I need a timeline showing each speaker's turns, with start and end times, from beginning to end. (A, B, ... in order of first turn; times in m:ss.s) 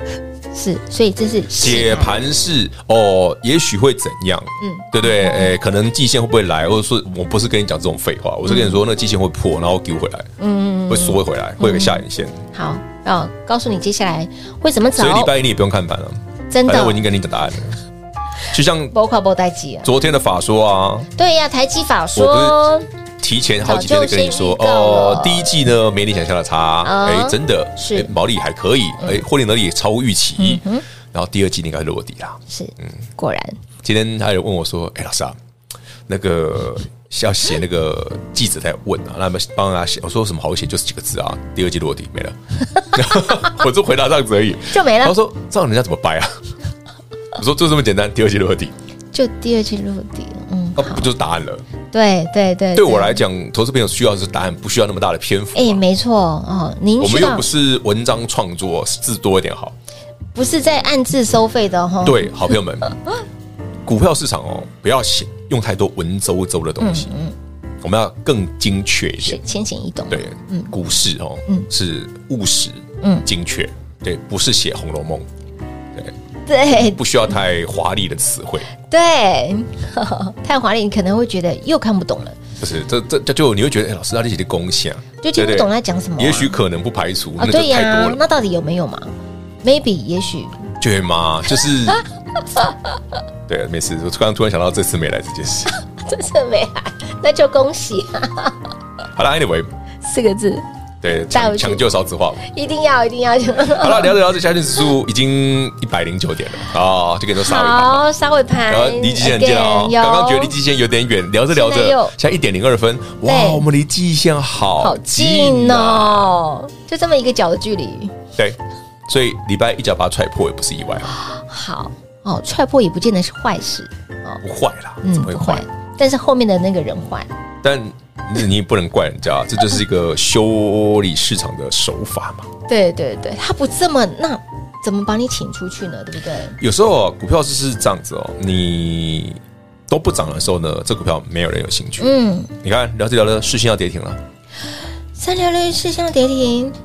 0:00.5-0:02.1 A
0:01.6-0:10.3 B
0:04.6-0:05.5 A
0:08.4-0:08.8 A
0:10.4-0:15.3 A
0:10.9-0:12.4 B
0:14.9-0:17.8 B
0:16.5-0:17.0 A
0:18.5-0:18.9 B
0:18.9-0:19.9 A
0:19.8-0:21.1 B
0:21.2-0:22.9 A
0:22.1-0:22.7 B
0:23.2-0:32.9 B
0:23.6-0:25.5 A
0:26.8-0:28.1 A
0:30.4-0:30.8 A
0:32.5-0:33.6 A
0:33.8-0:35.4 B
0:36.1-0:46.5 B
0:44.7-0:45.2 A
0:47.3-0:48.7 B
0:49.1-0:51.1 A
0:50.8-0:51.6 B
0:51.9-0:53.2 A
0:52.7-0:55.8 B
0:55.5-0:57.5 A
0:57.0-0:59.7 B
1:00.3-1:02.3 A
1:02.0-1:02.9 B
1:03.8-1:07.1 B
1:06.8-1:07.3 A
1:07.8-1:09.4 B
1:09.2-1:10.7 A
1:10.1-1:15.3 B
1:13.0-1:13.2 A
1:16.4-1:17.0 A
1:16.8-1:18.7 B
1:18.8-1:22.4 A
1:22.6-1:28.2 B
1:25.2-1:26.5 A
1:27.4-1:29.1 A
1:29.6-1:30.7 A
1:30.8-1:32.0 B
1:33.5-1:35.7 B
1:35.7-1:38.6 A
1:39.1-1:39.7 B
1:40.0-1:40.6 A
1:41.0-1:42.4 B
1:41.3-1:41.8 A
1:42.4-1:44.2 A
1:43.6-1:48.0 B
1:47.4-1:50.5 A
1:48.7-1:56.4 B
1:51.5-1:52.1 A
1:53.2-1:53.6 A
1:54.8-1:58.2 A
1:58.4-2:01.2 B
2:01.1-2:04.4 A
2:04.4-2:05.6 B
2:05.0-2:07.3 A
2:07.6-2:12.5 B
2:12.7-2:16.6 A
2:16.6-2:24.2 B
2:22.0-2:22.5 A
2:25.2-2:26.8 A